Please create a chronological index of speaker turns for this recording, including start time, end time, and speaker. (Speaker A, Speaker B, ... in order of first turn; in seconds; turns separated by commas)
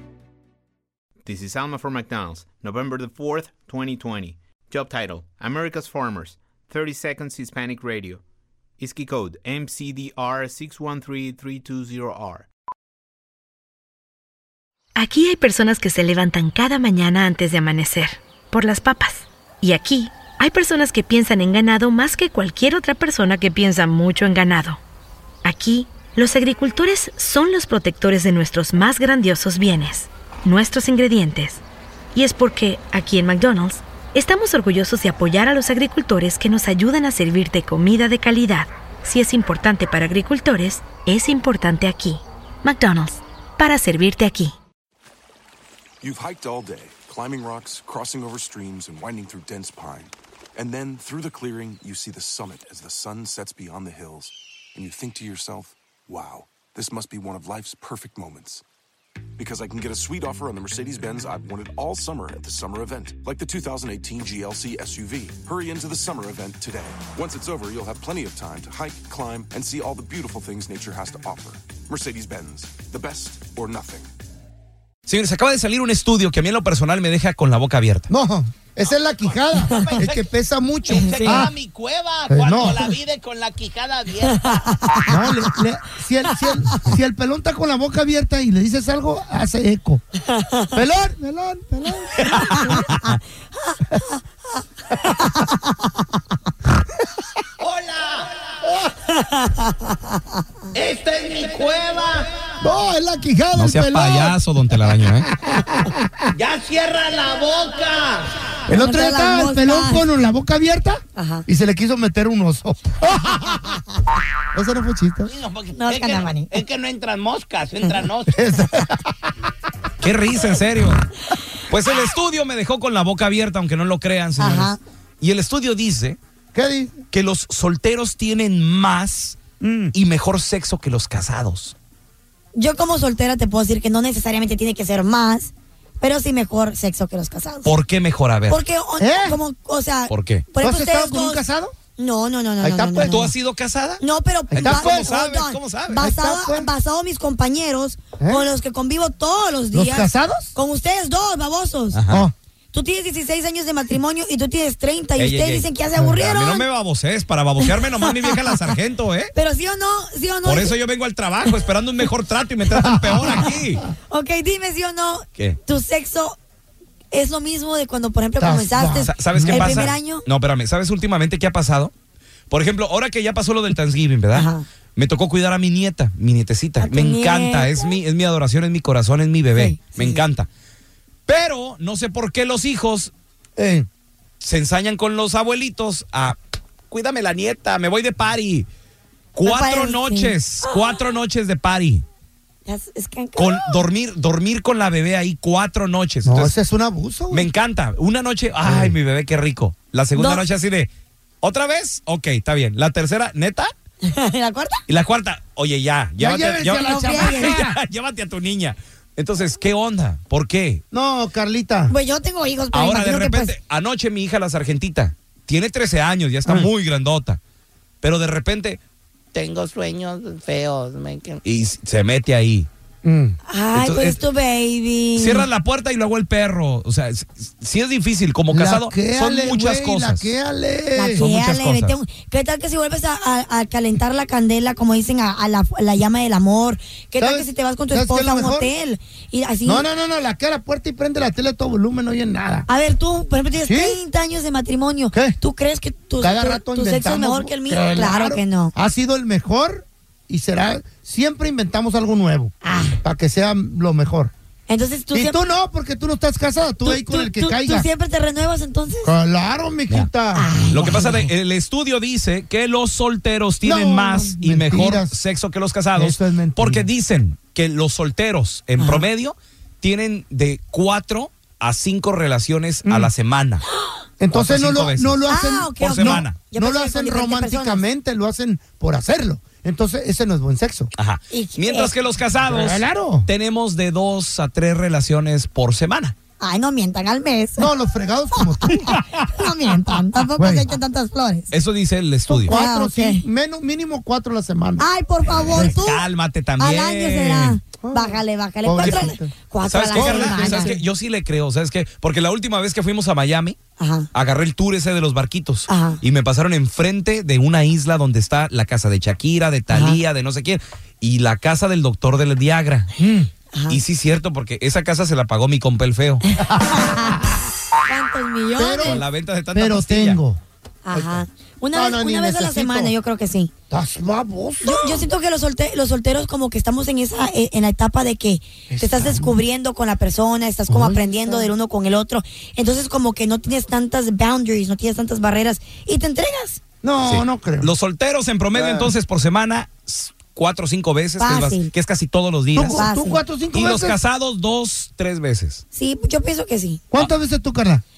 Speaker A: 1.2-8.2, Speaker A: 8.8-12.5, Speaker B: 15.0-24.8, Speaker B: 25.4-31.6, Speaker B: 32.1-44.5, Speaker C: 46.0-58.6, Speaker C: 59.4-74.1, Speaker D: 75.1-78.1, Speaker E: 78.1-81.5, Speaker F: 79.7-80.3, Speaker F: 80.8-84.8, Speaker E: 82.3-82.9, Speaker G: 84.8-85.1, Speaker E: 85.1-90.0, Speaker G: 90.3-90.7, Speaker E: 90.7-92.2, Speaker G: 92.3-93.2, Speaker G: 95.0-95.9, Speaker F: 97.6-98.4, Speaker G: 99.1-100.0, Speaker F: 100.7-102.3, Speaker E: 102.6-106.2, Speaker D: 103.6-105.3, Speaker F: 106.3-108.6, Speaker E: 108.7-113.8, Speaker G: 108.7-110.1, Speaker G: 111.2-111.5, Speaker E: 114.5-115.3, Speaker F: 115.3-118.3, Speaker G: 115.7-116.6, Speaker E: 118.3-119.1, Speaker D: 120.0-121.0, Speaker D: 121.7-126.2, Speaker G: 124.4-124.8, Speaker E: 126.5-127.0, Speaker D: 127.1-129.4, Speaker E: 129.6-129.9, Speaker D: 129.9-131.8, Speaker G: 132.6-137.8, Speaker D: 137.7-138.6, Speaker G: 138.5-141.4, Speaker E: 139.0-139.4, Speaker D: 140.1-140.5, Speaker E: 140.6-141.8, Speaker G: 142.0-143.3, Speaker E: 142.6-143.3, Speaker D: 143.1-144.0, Speaker G: 144.0-152.0, Speaker E: 144.5-145.1, Speaker D: 144.6-146.0, Speaker E: 145.9-146.7, Speaker E: 148.2-148.5, Speaker E: 149.7-150.6, Speaker D: 151.9-152.3, Speaker E: 152.1-152.3, Speaker G: 152.7-156.7, Speaker D: 155.2-159.3, Speaker G: 157.6-158.6, Speaker G: 159.3-160.8, Speaker D: 160.4-163.8, Speaker E: 162.9-163.2, Speaker G: 164.1-166.4, Speaker G: 167.1-170.3, Speaker E: 168.4-169.9, Speaker D: 169.0-171.9, Speaker D: 172.5-180.5, Speaker G: 174.3-174.7, Speaker G: 176.8-178.0, Speaker G: 179.6-180.3, Speaker D: 181.3-183.1, Speaker E: 183.6-183.9, Speaker D: 184.4-186.4, Speaker D: 186.9-188.7, Speaker D: 189.3-192.1, Speaker G: 189.4-191.1, Speaker G: 192.7-193.8, Speaker D: 193.4-196.5, Speaker E: 196.2-197.5, Speaker D: 197.3-200.9, Speaker E: 198.6-199.0, Speaker G: 200.2-200.4, Speaker D: 201.4-203.7, Speaker G: 204.1-204.8, Speaker D: 204.9-210.8, Speaker E: 206.2-207.8, Speaker G: 206.8-207.6, Speaker E: 210.9-211.9, Speaker G: 211.9-213.6, Speaker D: 212.7-217.4, Speaker E: 216.4-216.7, Speaker D: 218.0-218.8, Speaker F: 219.3-221.4, Speaker D: 221.4-222.7, Speaker E: 223.0-223.4, Speaker G: 223.5-225.5, Speaker D: 223.7-224.2, Speaker D: 225.2-230.3, Speaker E: 228.5-231.2, Speaker G: 230.9-239.9, Speaker D: 231.2-232.0, Speaker E: 237.2-238.7, Speaker E: 239.7-242.7, Speaker G: 242.7-248.7, Speaker E: 243.6-244.0, Speaker E: 245.1-245.4, Speaker E: 246.2-254.3, Speaker G: 252.6-253.0, Speaker G: 254.7-255.4, Speaker E: 255.1-257.9, Speaker G: 256.8-259.1, Speaker E: 259.0-261.1, Speaker G: 260.3-261.2, Speaker D: 260.7-273.6, Speaker E: 263.6-265.2, Speaker E: 265.9-266.9, Speaker G: 268.8-269.1, Speaker E: 272.8-273.1, Speaker G: 273.7-274.1, Speaker E: 274.2-280.9, Speaker D: 274.3-275.2, Speaker G: 275.3-277.9, Speaker D: 275.8-276.4, Speaker D: 281.0-286.1, Speaker G: 281.3-281.9, Speaker E: 282.4-283.3, Speaker G: 286.4-287.7, Speaker E: 287.6-288.8, Speaker G: 288.4-291.5, Speaker E: 290.4-290.8, Speaker D: 291.5-292.5, Speaker E: 292.3-294.9, Speaker G: 292.5-293.2, Speaker G: 294.8-296.1, Speaker D: 295.3-297.6, Speaker E: 295.5-295.8, Speaker G: 296.6-300.7, Speaker E: 297.8-299.3, Speaker D: 298.8-299.1, Speaker D: 299.6-303.6, Speaker E: 299.9-300.9, Speaker G: 303.8-304.1, Speaker D: 304.1-312.9, Speaker G: 305.7-306.0, Speaker G: 309.7-310.0, Speaker E: 313.0-313.3, Speaker G: 313.5-313.8, Speaker D: 313.7-316.2, Speaker G: 316.4-317.2, Speaker E: 316.5-317.3, Speaker G: 317.9-319.0, Speaker E: 318.6-320.4, Speaker D: 318.9-320.2, Speaker G: 320.9-323.5, Speaker E: 320.9-322.9, Speaker E: 323.7-325.1, Speaker G: 324.6-336.6, Speaker E: 328.7-329.3, Speaker E: 330.7-331.5, Speaker E: 336.8-337.7, Speaker D: 337.0-342.8, Speaker E: 338.5-338.9, Speaker G: 341.2-341.7, Speaker E: 342.6-344.0, Speaker G: 342.7-343.2, Speaker D: 343.5-345.6, Speaker G: 345.7-346.8, Speaker E: 346.9-347.8